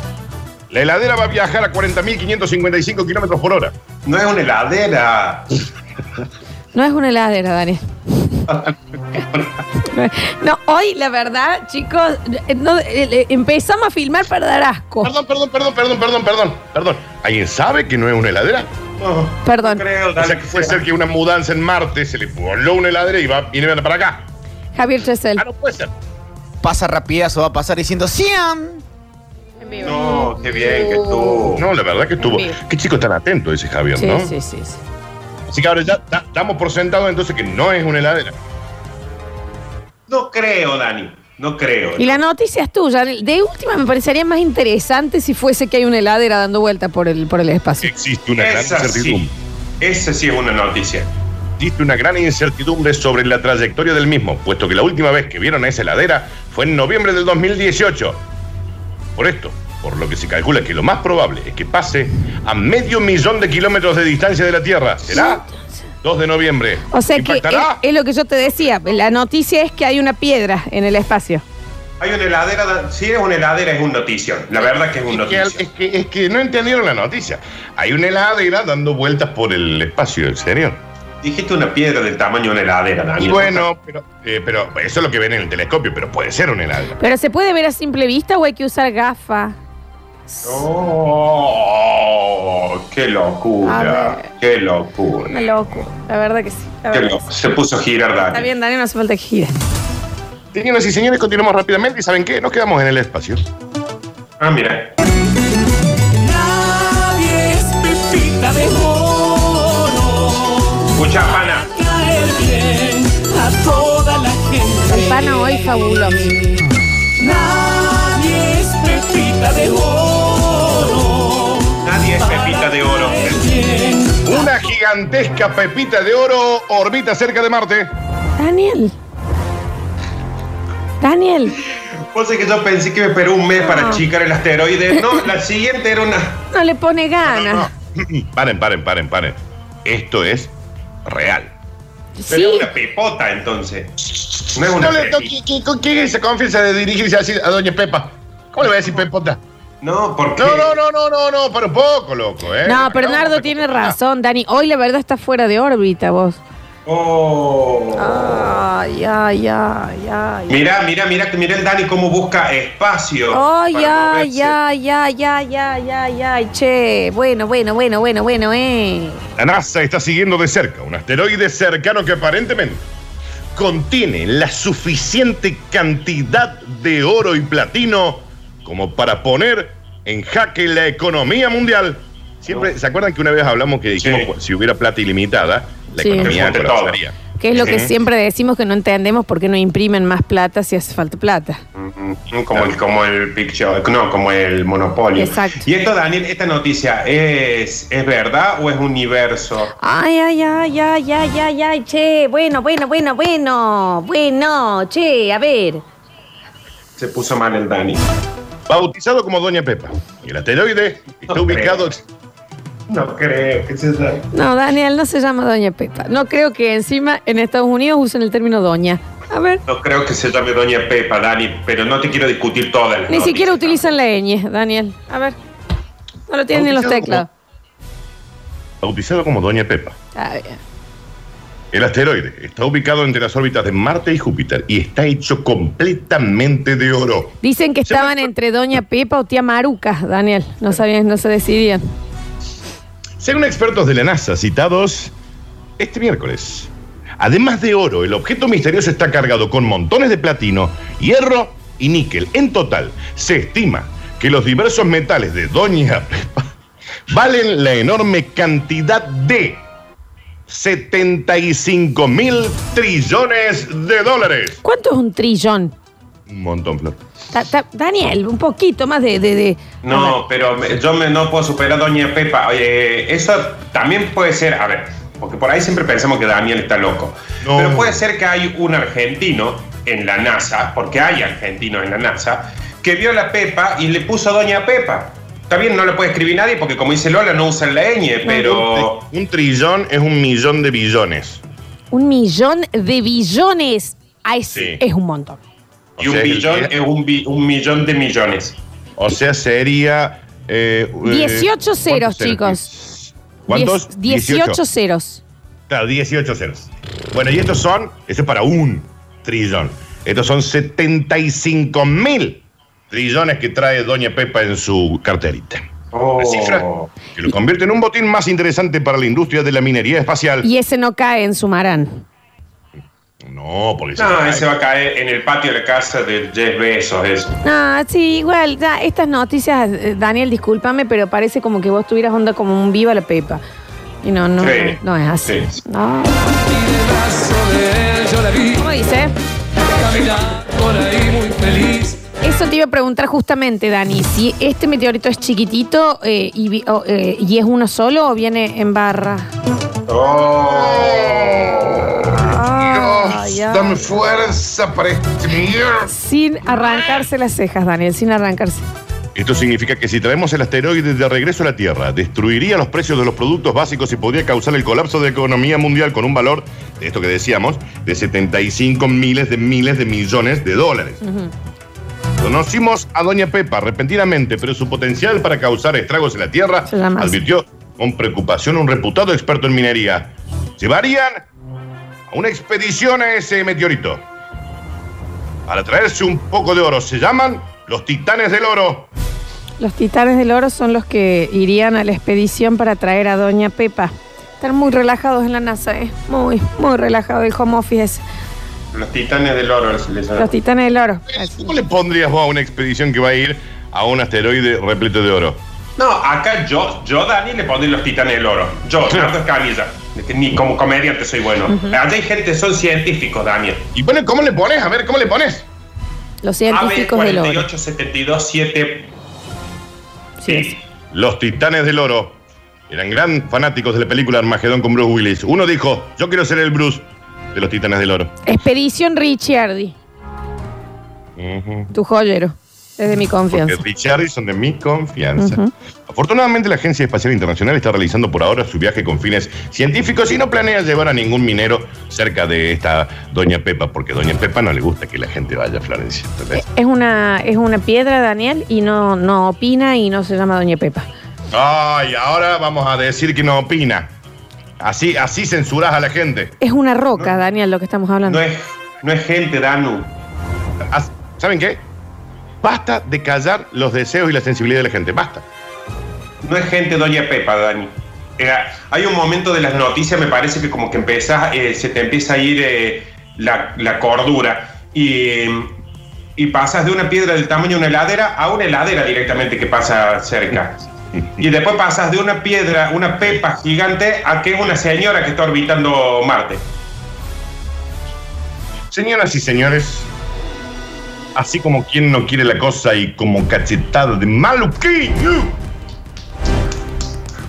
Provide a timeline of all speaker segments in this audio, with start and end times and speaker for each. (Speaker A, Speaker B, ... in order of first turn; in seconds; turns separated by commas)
Speaker A: 0.7-3.7, Speaker B: 4.0-5.6, Speaker C: 6.7-8.4, Speaker C: 9.8-15.1, Speaker A: 15.0-18.7, Speaker B: 19.0-20.8, Speaker C: 19.4-19.8, Speaker A: 20.1-24.3, Speaker C: 24.7-25.4, Speaker A: 25.4-25.9, Speaker D: 26.6-28.8, Speaker C: 29.6-31.4, Speaker B: 29.8-31.6, Speaker A: 31.5-34.3, Speaker C: 32.2-32.6, Speaker C: 34.0-34.8, Speaker A: 35.5-38.4, Speaker B: 40.1-42.2, Speaker C: 42.0-47.9, Speaker A: 47.8-49.3, Speaker B: 48.4-49.3, Speaker B: 49.8-51.1, Speaker A: 51.6-58.2, Speaker A: 59.1-65.4, Speaker C: 65.1-65.6, Speaker A: 66.0-67.8, Speaker C: 66.9-71.4, Speaker B: 72.0-75.6, Speaker A: 75.1-80.8, Speaker B: 81.2-83.7, Speaker A: 83.2-87.0, Speaker C: 87.0-89.5, Speaker C: 90.3-90.6, Speaker B: 90.4-95.5, Speaker C: 93.6-94.3, Speaker C: 95.3-97.2, Speaker B: 96.9-98.5, Speaker C: 98.3-99.5, Speaker A: 100.5-103.4, Speaker B: 104.4-105.0, Speaker E: 106.2-110.9, Speaker B: 110.9-111.7, Speaker E: 111.7-115.2, Speaker C: 114.8-116.5, Speaker E: 117.2-121.8, Speaker B: 121.8-123.6, Speaker E: 122.4-124.2, Speaker A: 124.2-127.9, Speaker C: 128.4-128.9, Speaker C: 131.0-131.6, Speaker B: 132.1-136.4, Speaker C: 133.6-134.0, Speaker C: 136.5-137.7, Speaker A: 137.2-140.5, Speaker A: 141.0-141.5, Speaker C: 142.2-142.7, Speaker B: 142.3-145.3, Speaker A: 144.0-149.4, Speaker B: 149.8-150.8, Speaker A: 150.3-154.0, Speaker C: 152.6-156.4, Speaker B: 156.8-158.6, Speaker C: 157.9-160.6, Speaker B: 160.5-164.5, Speaker C: 163.3-169.2, Speaker A: 169.4-172.8, Speaker A: 173.5-187.9, Speaker B: 184.0-184.3, Speaker C: 186.0-186.3, Speaker B: 186.2-187.0, Speaker C: 187.4-191.6, Speaker B: 187.6-187.9, Speaker B: 191.8-199.7, Speaker C: 195.2-195.7, Speaker C: 199.8-205.8, Speaker B: 207.0-208.0, Speaker A: 208.7-212.0, Speaker B: 211.3-211.9, Speaker B: 212.9-214.3, Speaker C: 214.3-219.6, Speaker B: 219.7-223.9, Speaker C: 223.1-225.3, Speaker C: 226.3-227.3, Speaker A: 226.5-227.2, Speaker A: 228.8-230.0, Speaker C: 230.1-230.6, Speaker A: 231.7-238.3, Speaker C: 237.4-241.8, Speaker A: 243.2-245.1, Speaker A: 245.8-256.5, Speaker A: 257.1-259.6, Speaker A: 260.5-264.6, Speaker C: 264.6-265.7, Speaker A: 266.3-267.0, Speaker C: 267.3-270.2, Speaker B: 269.8-289.0, Speaker A: 277.4-278.0, Speaker C: 288.3-288.6, Speaker A: 288.4-291.4, Speaker C: 291.9-295.4, Speaker A: 294.5-294.8, Speaker A: 296.0-296.7, Speaker B: 296.0-298.6, Speaker A: 299.0-304.6, Speaker C: 301.0-302.7, Speaker C: 303.5-305.2, Speaker A: 305.7-315.6, Speaker B: 315.9-316.9, Speaker A: 316.2-320.5, Speaker C: 320.4-322.1, Speaker A: 323.2-324.5, Speaker B: 324.0-327.4, Speaker C: 327.4-333.4, Speaker C: 334.0-336.4, Speaker B: 334.4-335.6, Speaker E: 336.9-338.3, Speaker C: 338.3-339.1, Speaker E: 340.0-341.9, Speaker C: 342.1-349.3, Speaker B: 349.9-351.8, Speaker A: 350.4-355.9, Speaker C: 352.1-353.9, Speaker C: 355.8-358.6, Speaker A: 359.1-371.0, Speaker C: 371.0-371.3, Speaker A: 372.2-381.2, Speaker C: 376.7-377.2, Speaker A: 382.1-384.0, Speaker A: 385.5-388.9, Speaker C: 389.6-398.0, Speaker B: 398.7-400.3, Speaker C: 400.2-401.5, Speaker A: 401.1-405.4, Speaker B: 405.8-413.7, Speaker C: 411.5-411.8, Speaker A: 413.7-415.5, Speaker C: 416.2-417.5, Speaker B: 416.5-418.9, Speaker C: 420.2-420.6, Speaker B: 420.3-420.6, Speaker A: 420.9-428.1, Speaker C: 428.2-429.8, Speaker A: 431.2-431.7, Speaker C: 431.7-433.6, Speaker A: 433.3-446.4, Speaker C: 435.2-435.5, Speaker C: 446.3-450.9, Speaker A: 451.3-453.9, Speaker A: 454.6-456.4, Speaker C: 456.4-458.2, Speaker B: 458.1-459.9, Speaker A: 460.6-461.6, Speaker A: 462.4-465.2, Speaker B: 466.2-475.5, Speaker B: 476.1-480.7, Speaker B: 481.2-486.4, Speaker A: 488.7-489.9, Speaker A: 491.1-495.4